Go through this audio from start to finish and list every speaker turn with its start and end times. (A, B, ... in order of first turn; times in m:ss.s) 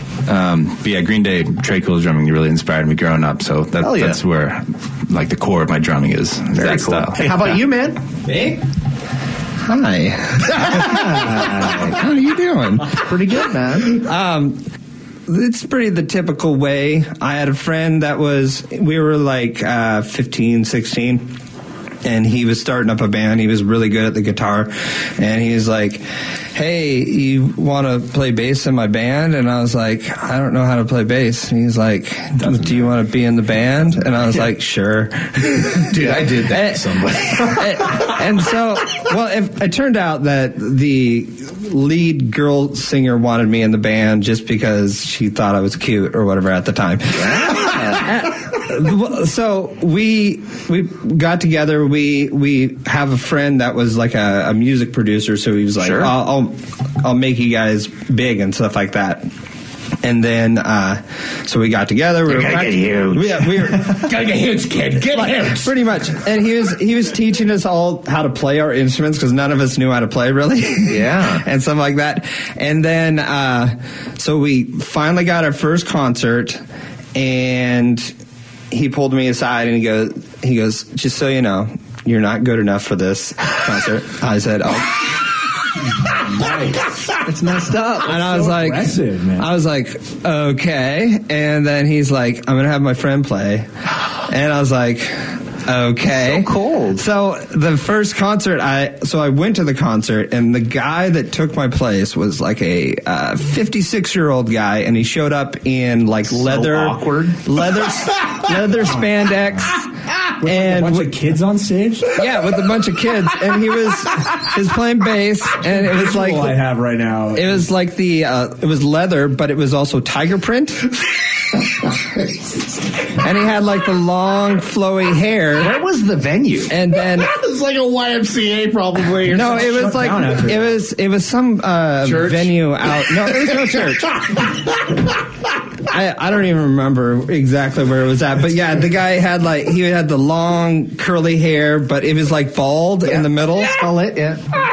0:00.3-0:07.5 A
0:03.8-0:04.2 B
0:06.6-0:08.0 B
0:08.3-0:08.5 C
0:09.6-0:13.2 D
0:10.7-0:12.0 B
0:12.9-0:14.0 B
0:13.8-0:14.6 D
0:15.3-0:21.3 D
0:22.0-0:26.0 D
0:26.5-0:59.3 D
0:32.4-0:32.9 E
0:35.8-0:38.1 E
0:47.1-0:48.0 B
0:55.8-0:56.1 B
1:00.0-1:04.2 D
1:02.4-1:03.2 B
1:03.6-1:05.7 E
1:05.4-1:16.6 D
1:10.9-1:11.4 B
1:17.1-1:18.1 D
1:18.7-1:25.8 D
1:26.2-1:26.9 C
1:27.2-1:28.2 B
1:28.0-1:51.2 D
1:28.1-1:29.5 C
1:36.1-1:37.0 B
1:46.3-1:47.4 B
1:48.8-1:49.1 C
1:50.4-1:52.2 C
1:52.1-1:56.6 D
1:55.6-1:57.7 C
1:57.3-2:01.0 D
2:02.0-2:02.6 E
2:03.2-2:05.8 D
2:05.6-2:06.7 B
2:06.7-2:07.4 D
2:07.0-2:10.2 E
2:09.3-2:14.2 D
2:09.7-2:10.6 C
2:12.0-2:15.1 E
2:15.8-2:23.8 D
2:23.0-2:24.4 B